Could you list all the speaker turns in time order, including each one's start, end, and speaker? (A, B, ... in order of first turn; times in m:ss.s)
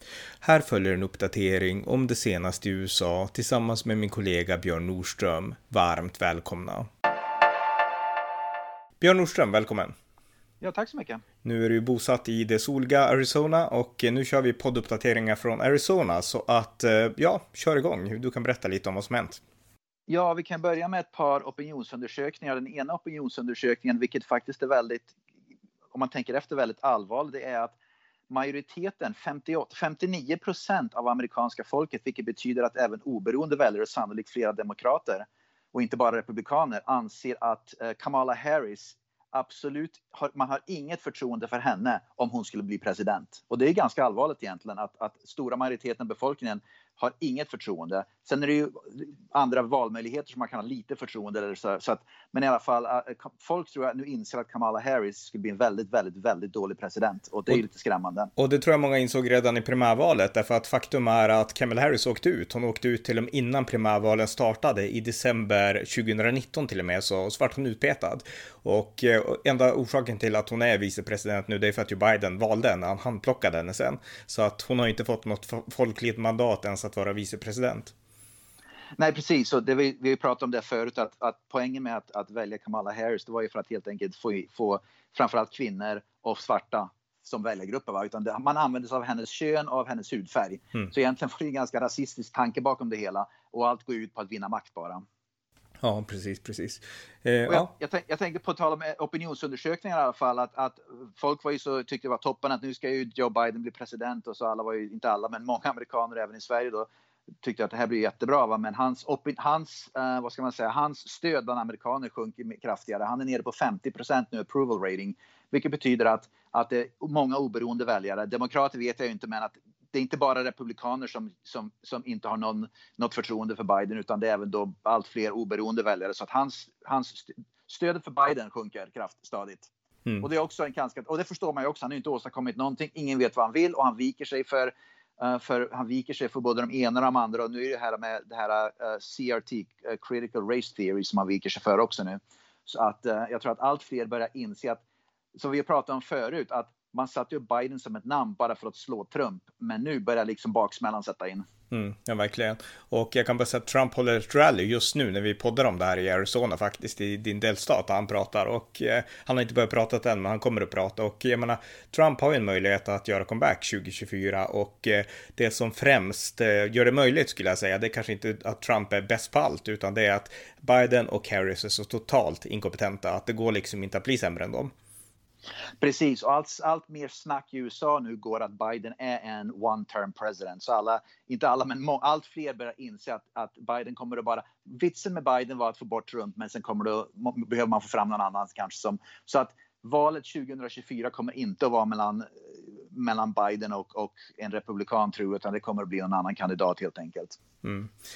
0:00.4-0:06.9 A
0:09.0-0:09.9 A
0:10.6-0:11.2 B
0:11.4-0:19.4 A
0:20.1-0:25.1 B
0:25.9-0:27.8 B
0:28.3-0:58.3 B
0:58.4-1:17.9 A
1:19.0-1:35.0 B
1:35.8-1:37.7 A
1:37.5-1:46.9 B
1:47.4-2:09.7 B
2:10.2-2:24.8 B
2:25.3-2:31.4 B
2:31.7-2:54.7 A
2:55.8-3:17.4 B
3:17.6-3:17.9 A